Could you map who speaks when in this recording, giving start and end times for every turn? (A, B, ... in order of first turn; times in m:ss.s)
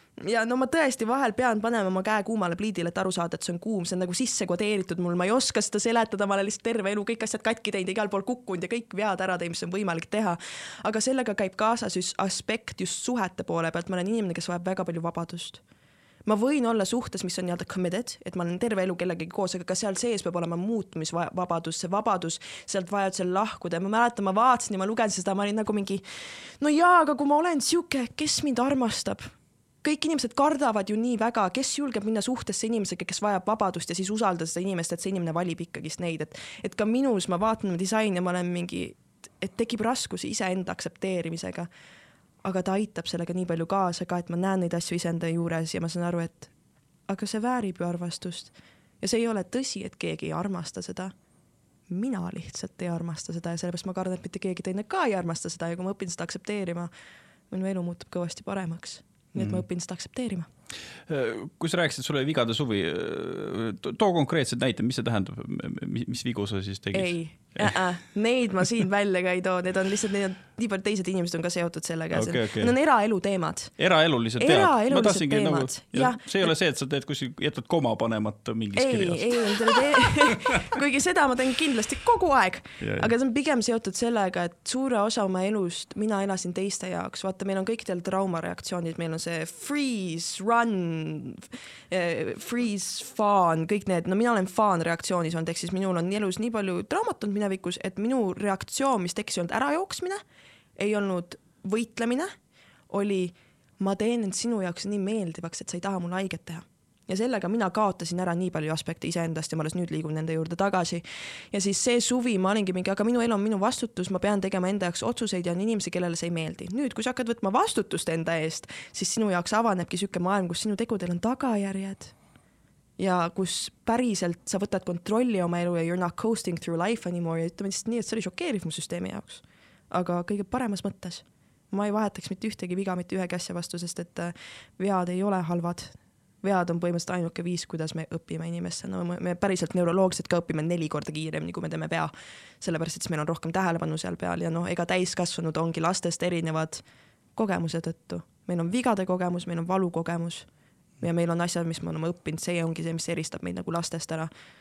0:00.2-0:15.6 A
0:16.3-0:29.3 A
0:29.8-0:41.7 A
0:42.4-0:46.5 A
0:47.1-0:51.1 A
0:51.9-0:56.9 A
0:57.5-1:00.5 A
0:59.4-0:59.6 B
1:01.1-1:07.8 B
1:06.9-1:13.7 A
1:12.1-1:12.7 B
1:13.8-1:20.7 B
1:14.4-1:16.5 A
1:18.8-1:40.2 A
1:22.8-1:23.1 B
1:40.8-1:42.3 A
1:42.9-2:02.2 A
2:03.0-2:26.8 A
2:27.4-2:30.5 A
2:31.0-2:34.3 A